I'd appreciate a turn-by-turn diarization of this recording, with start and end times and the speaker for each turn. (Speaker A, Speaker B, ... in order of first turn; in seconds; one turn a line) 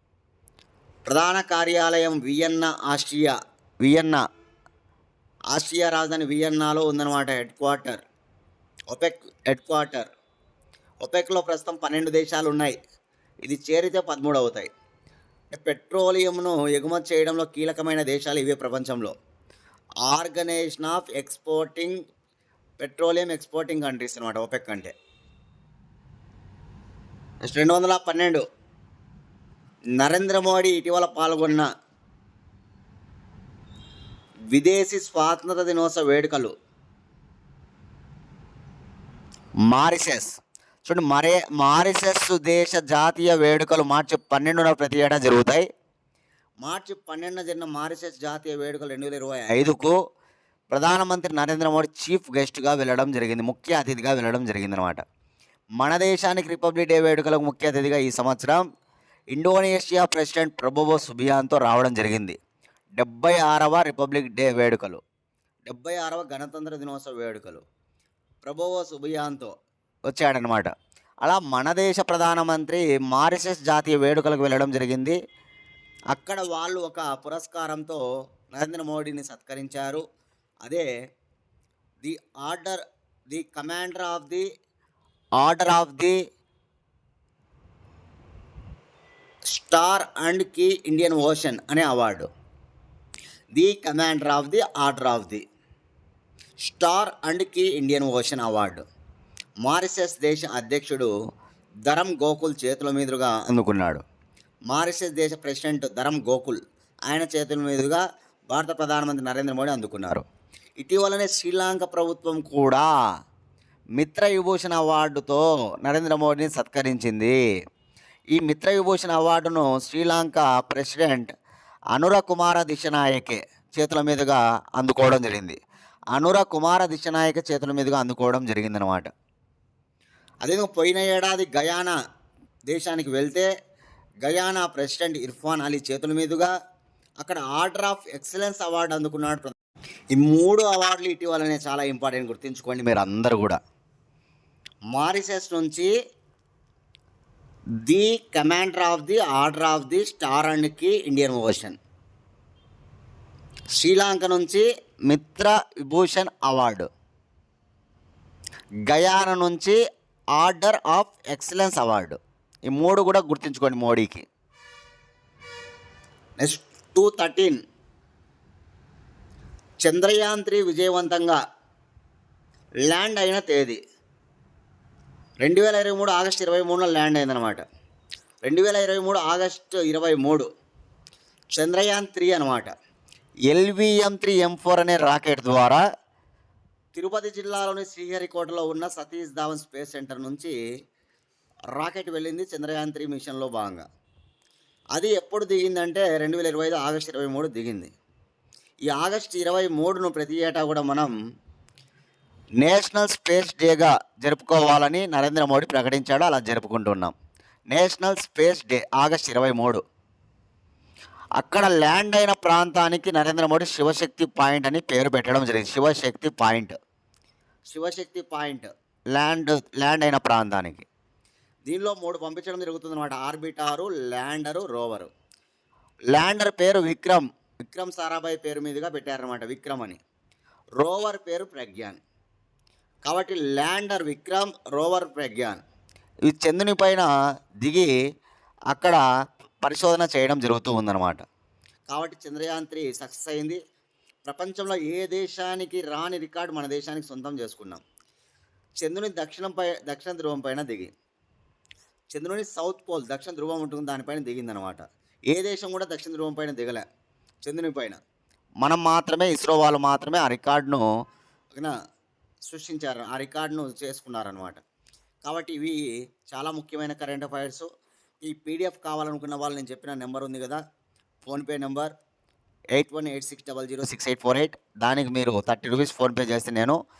Speaker A: 1.1-4.2
Speaker A: 5.5-8.0
Speaker A: 8.9-10.1
Speaker A: 11.0-12.8
Speaker A: 13.5-14.7
Speaker A: 15.5-19.1
Speaker A: 20.1-22.0
Speaker A: 22.8-24.9
Speaker A: 27.4-28.4
Speaker A: 30.0-31.7
Speaker A: 34.5-36.5
Speaker A: 39.7-45.7
Speaker A: 46.6-50.0
Speaker A: 50.7-55.0
Speaker A: 55.8-58.6
Speaker A: 59.3-62.4
Speaker A: 63.0-65.0
Speaker A: 65.7-67.7
Speaker A: 68.4-69.5
Speaker A: 70.1-70.7
Speaker A: 71.2-75.2
Speaker A: 76.1-80.0
Speaker A: 82.0-84.5
Speaker A: 85.4-86.2
Speaker A: 89.5-92.3
Speaker A: 93.6-95.4
Speaker A: 96.6-98.8
Speaker A: 99.7-101.1
Speaker A: 101.9-104.0
Speaker A: 104.7-110.2
Speaker A: 110.8-112.9
Speaker A: 114.0-117.4
Speaker A: 118.3-121.3
Speaker A: 122.0-125.6
Speaker A: 126.1-129.1
Speaker A: 130.4-132.0
Speaker A: 132.7-133.5
Speaker A: 134.2-136.5
Speaker A: 137.2-139.6
Speaker A: 140.2-143.6
Speaker A: 144.9-145.9
Speaker A: 147.9-151.8
Speaker A: 153.8-156.9
Speaker A: 158.9-159.8
Speaker A: 160.4-164.3
Speaker A: 166.4-167.6
Speaker A: 169.8-171.4
Speaker A: 172.9-173.8
Speaker A: 175.4-177.6
Speaker A: 178.4-180.5
Speaker A: 181.6-182.7
Speaker A: 183.5-185.8
Speaker A: 186.9-190.6
Speaker A: 191.8-193.8
Speaker A: 194.9-197.9
Speaker A: 198.9-201.1
Speaker A: 202.6-207.1
Speaker A: 207.7-209.8
Speaker A: 211.4-216.8
Speaker A: 217.7-220.9
Speaker A: 221.7-225.1
Speaker A: 226.1-230.0
Speaker A: 230.8-232.0
Speaker A: 233.1-235.6
Speaker A: 236.3-237.1
Speaker A: 237.6-237.9
Speaker A: 238.7-239.0
Speaker A: 239.6-241.2
Speaker A: 241.9-243.6
Speaker A: 244.2-247.8
Speaker A: 248.8-250.9
Speaker A: 252.1-256.9
Speaker A: 257.4-258.0
Speaker A: 258.6-260.9
Speaker A: 262.5-264.6
Speaker A: 265.2-267.7
Speaker A: 268.2-270.6
Speaker A: 271.2-271.9
Speaker A: 272.8-276.8